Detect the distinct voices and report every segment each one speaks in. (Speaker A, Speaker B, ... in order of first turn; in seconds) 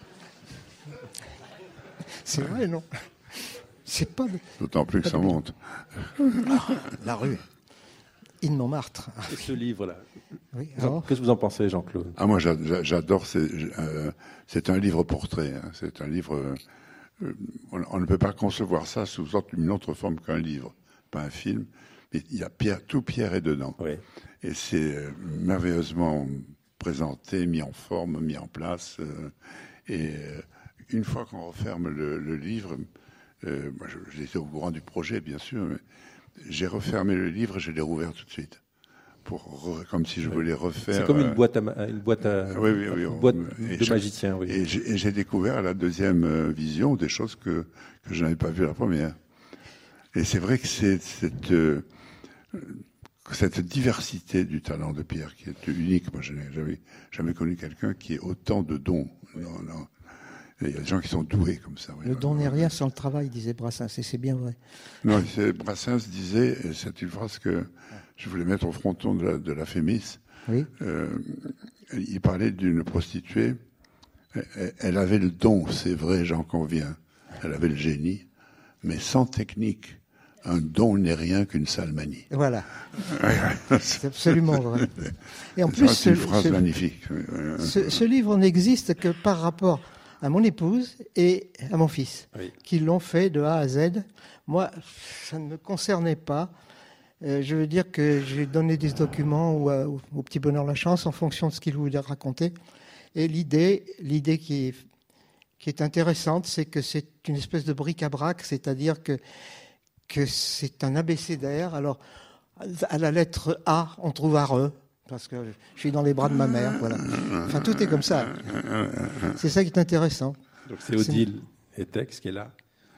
Speaker A: 2.2-4.4, 5.0-5.4, 6.4-7.4, 8.4-9.4, 10.5-11.1, 62.0-64.6, 82.3-82.7, 83.9-86.6, 87.6-96.5, 97.2-102.5, 103.1-104.8, 105.6-109.2, 110.1-112.0, 112.6-118.5, 119.3-120.4
Speaker B: 4.6-6.6, 12.2-16.6, 17.2-23.8, 24.4-32.9, 33.4-35.8, 36.4-38.6, 39.2-41.4, 42.5-49.2, 50.1-51.9, 52.5-59.9, 60.6-62.7, 65.0-70.2, 70.8-73.6, 74.3-78.3, 78.8-82.3, 83.0-84.6, 85.7-88.0, 118.5-119.0
Speaker C: 9.3-10.0, 10.8-12.2, 40.4-44.6, 120.7-122.5